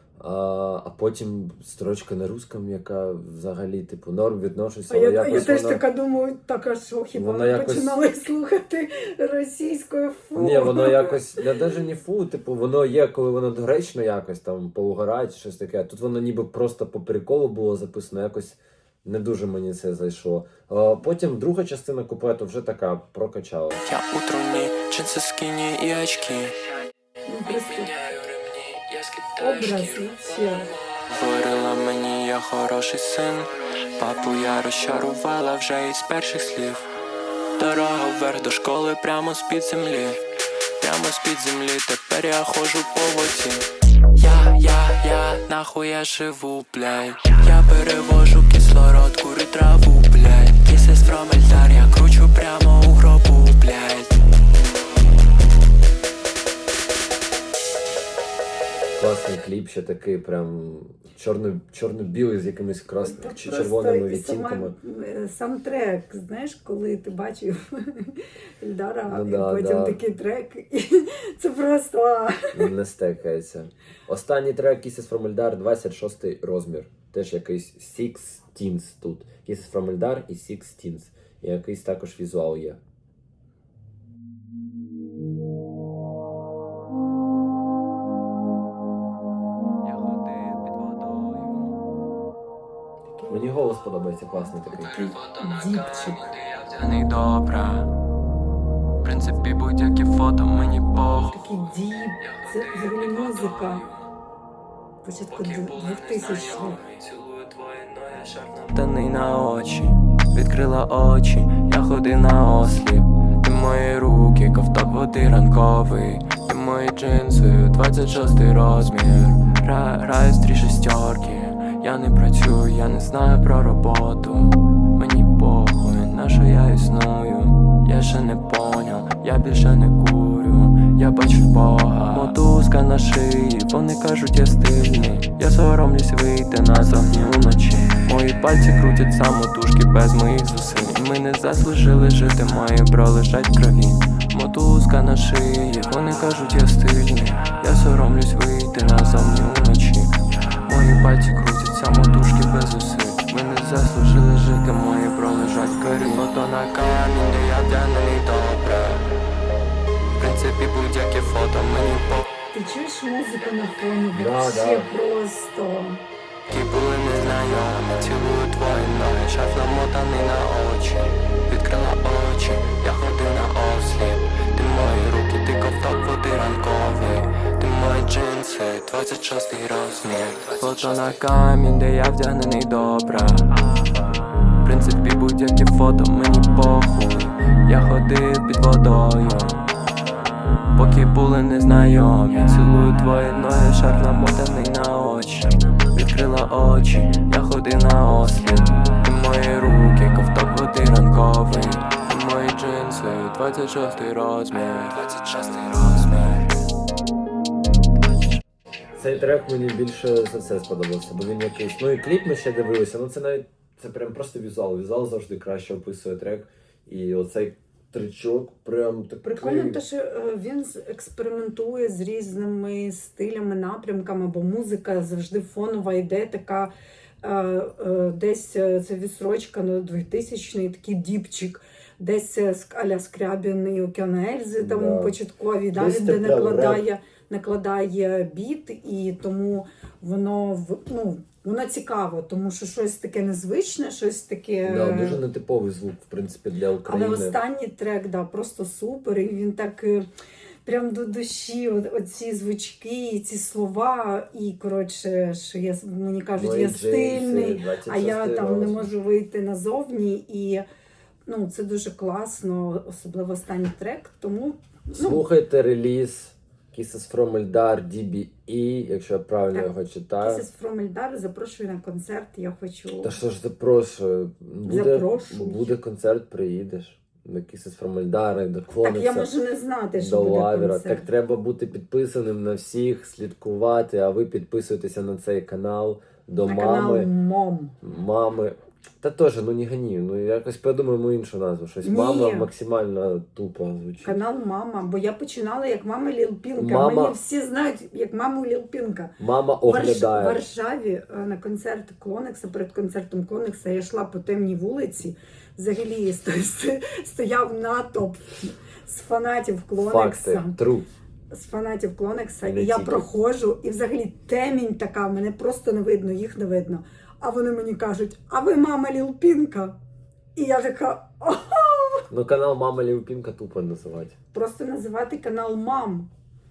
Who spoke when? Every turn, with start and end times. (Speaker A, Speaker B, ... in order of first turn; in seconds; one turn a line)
Speaker A: 0.2-5.8
Speaker B: 4.9-11.4
Speaker A: 7.1-8.0
Speaker A: 10.3-23.8
Speaker C: 23.8-26.6
Speaker B: 27.3-27.9
Speaker C: 27.4-36.8
Speaker B: 29.4-30.7
Speaker C: 37.6-40.2
Speaker C: 40.8-54.1
Speaker A: 59.0-64.7
Speaker B: 63.0-72.7
Speaker A: 69.1-70.0
Speaker A: 72.5-82.8
Speaker C: 89.8-91.8
Speaker A: 93.3-94.9
Speaker B: 94.7-96.2
Speaker C: 94.7-97.9
Speaker C: 99.0-104.1
Speaker B: 101.3-103.8
Speaker B: 105.0-106.8
Speaker C: 105.3-150.1
Speaker C: 150.6-159.1
Speaker C: 160.2-162.3
Speaker B: 162.5-166.0
Speaker A: 164.1-164.9
Speaker C: 166.5-183.6
Speaker C: 184.6-189.6
Speaker C: 190.7-206.6
Speaker A: 209.0-219.8
Speaker B: 219.4-245.2
Speaker A: 234.6-235.1
Speaker A: 235.7-236.8
Speaker A: 244.6-247.4
Speaker B: 246.8-250.1
Speaker B: 250.6-260.6
Speaker A: 256.3-258.9
Speaker B: 261.3-265.2
Speaker A: 264.9-270.4
Speaker B: 269.5-273.1
Speaker A: 273.0-279.3
Speaker B: 274.6-275.7
Speaker B: 278.8-281.1
Speaker A: 280.0-287.1
Speaker B: 286.4-287.7
Speaker A: 287.8-294.2
Speaker B: 291.8-292.5
Speaker B: 294.0-310.6
Speaker A: 296.6-297.2
Speaker A: 299.2-300.4
Speaker A: 309.8-310.9
Speaker B: 311.3-319.8
Speaker A: 312.4-313.1
Speaker B: 320.3-322.1
Speaker A: 322.1-324.1
Speaker B: 324.3-326.1